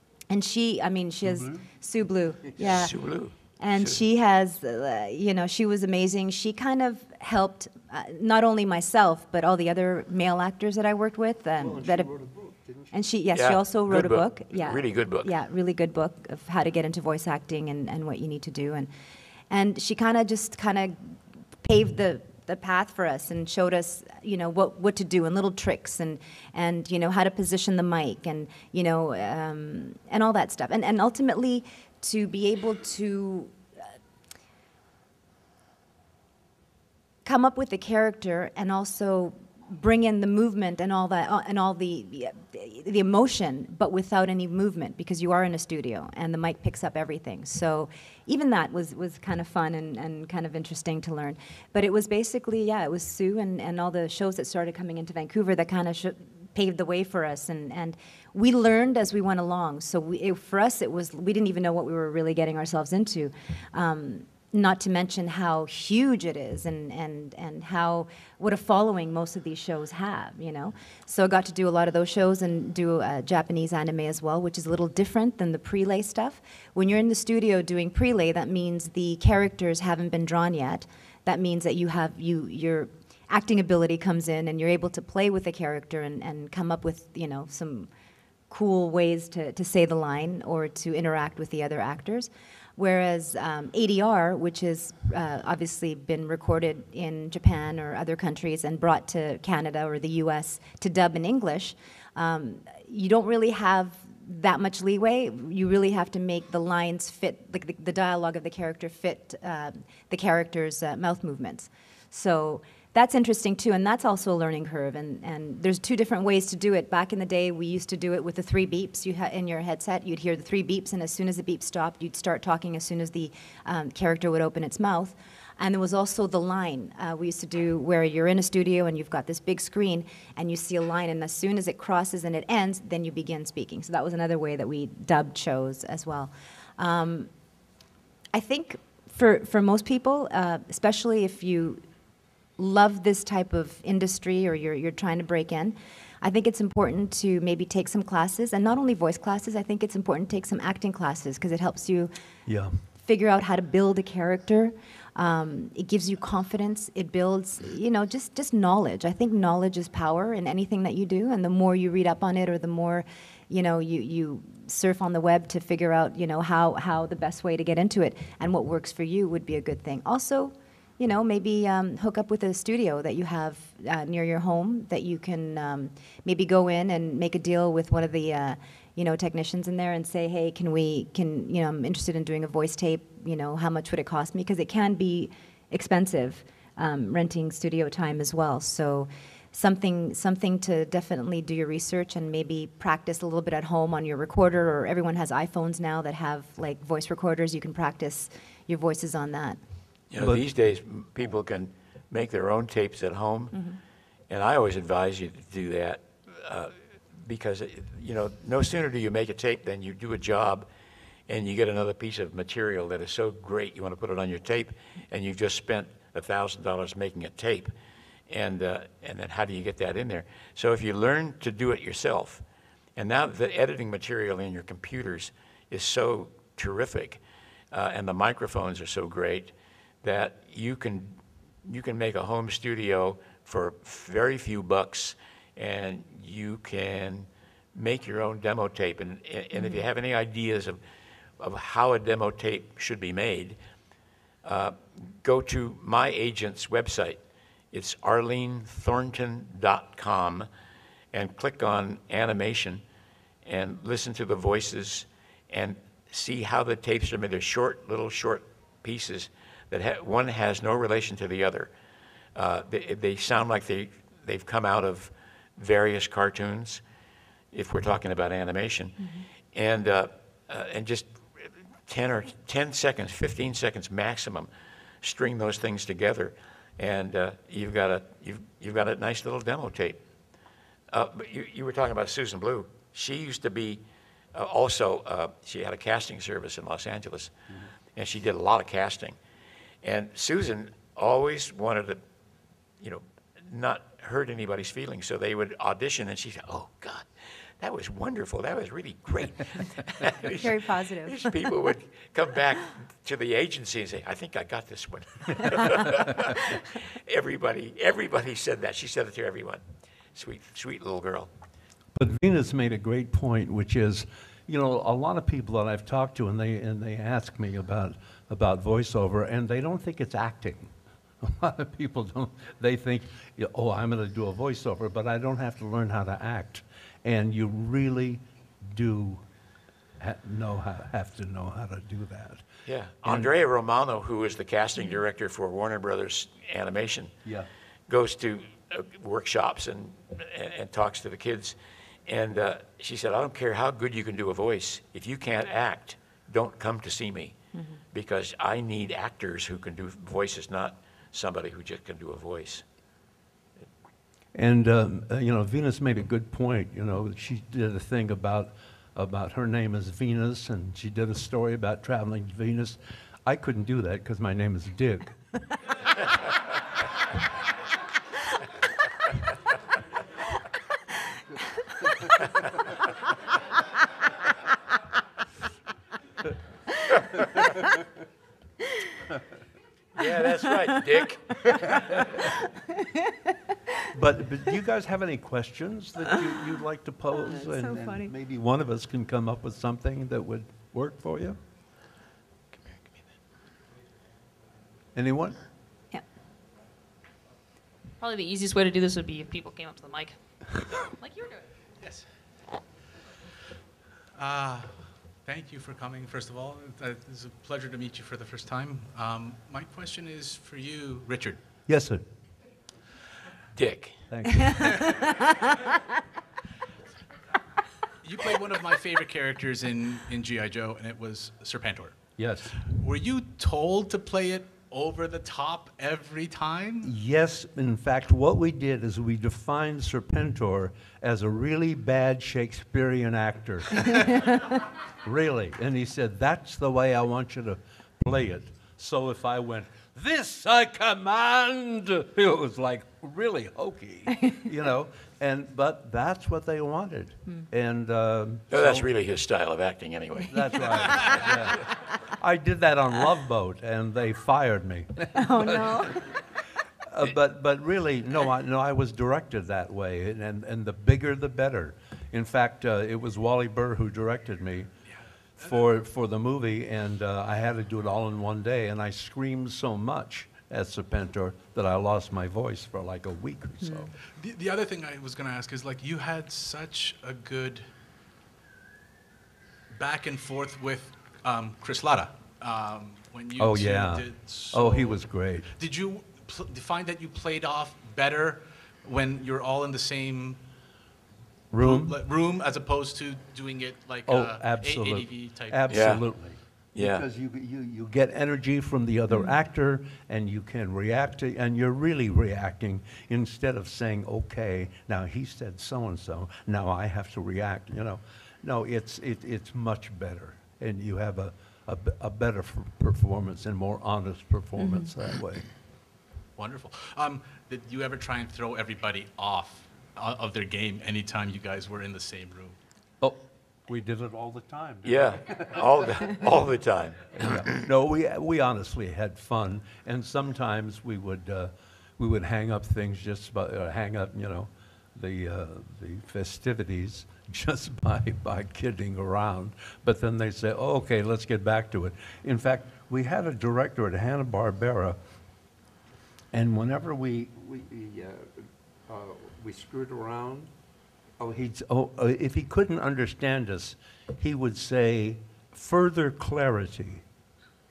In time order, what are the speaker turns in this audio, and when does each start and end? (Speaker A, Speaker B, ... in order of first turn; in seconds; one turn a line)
Speaker A: 0.3-2.9
Speaker B: 1.2-1.6
Speaker C: 2.6-4.0
Speaker A: 3.6-12.1
Speaker B: 11.6-12.9
Speaker A: 12.9-18.9
Speaker C: 13.3-15.3
Speaker A: 19.5-33.6
Speaker A: 37.2-87.9
Speaker A: 88.5-137.3
Speaker A: 138.3-141.8
Speaker A: 142.6-152.1
Speaker B: 152.5-152.8
Speaker A: 153.0-199.6
Speaker C: 200.1-203.6
Speaker B: 200.2-200.4
Speaker A: 203.5-203.8
Speaker C: 204.3-210.7
Speaker C: 211.3-217.7
Speaker C: 218.3-222.4
Speaker C: 223.0-227.2
Speaker C: 227.7-240.8
Speaker C: 241.4-243.6
Speaker C: 244.4-247.2
Speaker C: 247.7-250.5
Speaker C: 251.1-252.8
Speaker C: 253.4-261.7
Speaker C: 262.4-266.8
Speaker C: 267.5-274.5
Speaker C: 275.0-280.0
Speaker C: 280.9-283.8
Speaker C: 284.3-287.3
Speaker C: 287.9-289.2
Speaker C: 289.8-292.0
Speaker C: 292.8-297.1
Speaker C: 297.6-309.6
Speaker A: 300.3-301.1
Speaker C: 310.1-311.3
Speaker B: 311.9-329.2
Speaker B: 330.0-332.5
Speaker C: 332.7-337.1
Speaker C: 337.9-341.6
Speaker C: 342.1-347.4
Speaker C: 347.9-352.6
Speaker B: 354.3-365.3
Speaker C: 380.0-381.5
Speaker B: 383.9-391.4
Speaker A: 387.2-388.1
Speaker B: 394.9-395.4
Speaker D: 398.0-401.5
Speaker E: 401.8-402.1
Speaker E: 404.1-411.4
Speaker B: 411.7-412.0
Speaker C: 413.6-414.0
Speaker B: 414.1-414.9
Speaker E: 418.0-422.1
Speaker B: 422.2-422.6
Speaker E: 422.7-426.9
Speaker B: 426.8-434.4
Speaker B: 435.0-448.9
Speaker C: 448.5-451.2
Speaker B: 450.3-456.0
Speaker A: 455.2-456.0
Speaker B: 456.9-464.7
Speaker B: 465.4-473.9
Speaker A: 473.6-473.9
Speaker E: 474.0-477.7
Speaker E: 479.7-490.4
Speaker B: 483.4-485.5
Speaker B: 491.5-492.0
Speaker E: 491.5-495.7
Speaker B: 494.1-515.5
Speaker C: 495.7-496.1
Speaker C: 496.8-497.0
Speaker A: 514.6-514.9
Speaker E: 516.4-522.6
Speaker B: 523.0-526.1
Speaker C: 524.8-527.6
Speaker B: 527.1-545.0
Speaker B: 546.3-550.5
Speaker B: 551.2-557.0